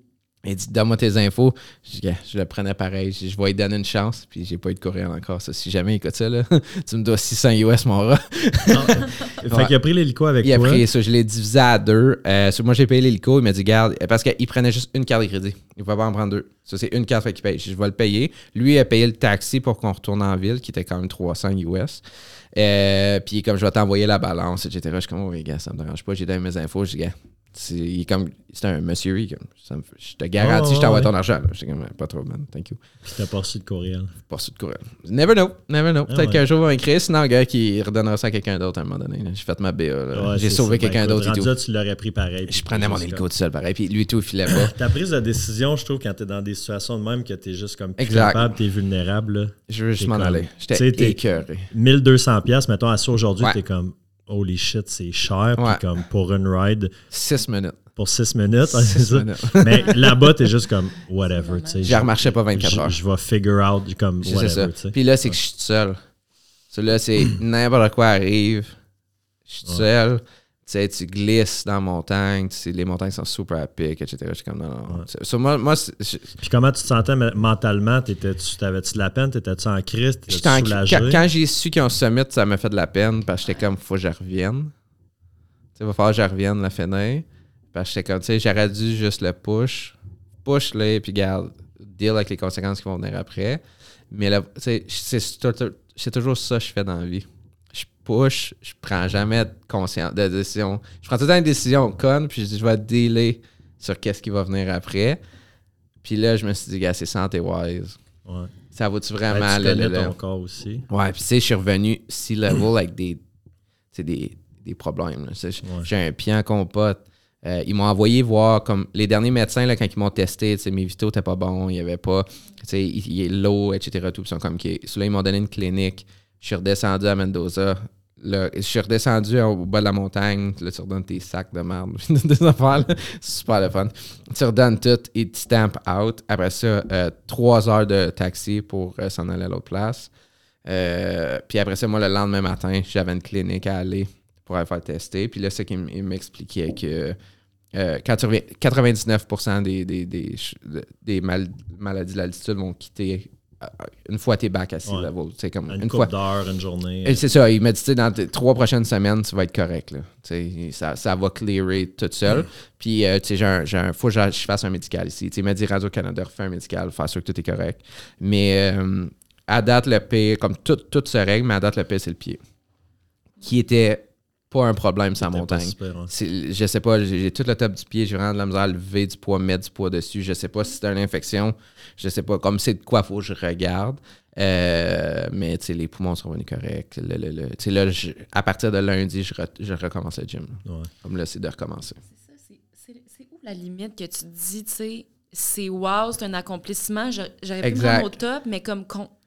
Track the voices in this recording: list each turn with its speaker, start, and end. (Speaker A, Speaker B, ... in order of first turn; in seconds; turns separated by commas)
Speaker A: 0.4-9.7, Speaker B: 8.7-10.8, Speaker A: 10.4-32.8, Speaker B: 30.4-31.1, Speaker B: 33.0-34.2, Speaker A: 34.3-41.5, Speaker B: 36.1-36.4, Speaker B: 40.1-43.2, Speaker A: 42.5-44.8, Speaker B: 44.5-56.9, Speaker A: 48.0-48.5, Speaker A: 49.7-51.7, Speaker A: 57.1-57.8, Speaker B: 58.0-65.3, Speaker A: 58.6-60.2, Speaker C: 61.5-61.9, Speaker A: 61.8-63.0, Speaker A: 64.2-66.0, Speaker A: 66.7-68.8, Speaker A: 69.5-76.4, Speaker B: 76.4-81.2, Speaker A: 80.3-84.7, Speaker A: 85.8-105.2, Speaker A: 106.0-108.0, Speaker B: 108.2-108.5, Speaker A: 108.7-110.1, Speaker B: 109.3-110.9, Speaker A: 110.9-113.2, Speaker A: 113.9-140.1, Speaker B: 115.6-115.9, Speaker A: 140.6-147.2, Speaker A: 147.7-156.1, Speaker B: 155.7-157.2, Speaker A: 157.0-172.4, Speaker A: 173.4-192.0, Speaker B: 175.3-176.1, Speaker B: 190.7-190.9, Speaker C: 192.2-199.1, Speaker A: 197.6-198.2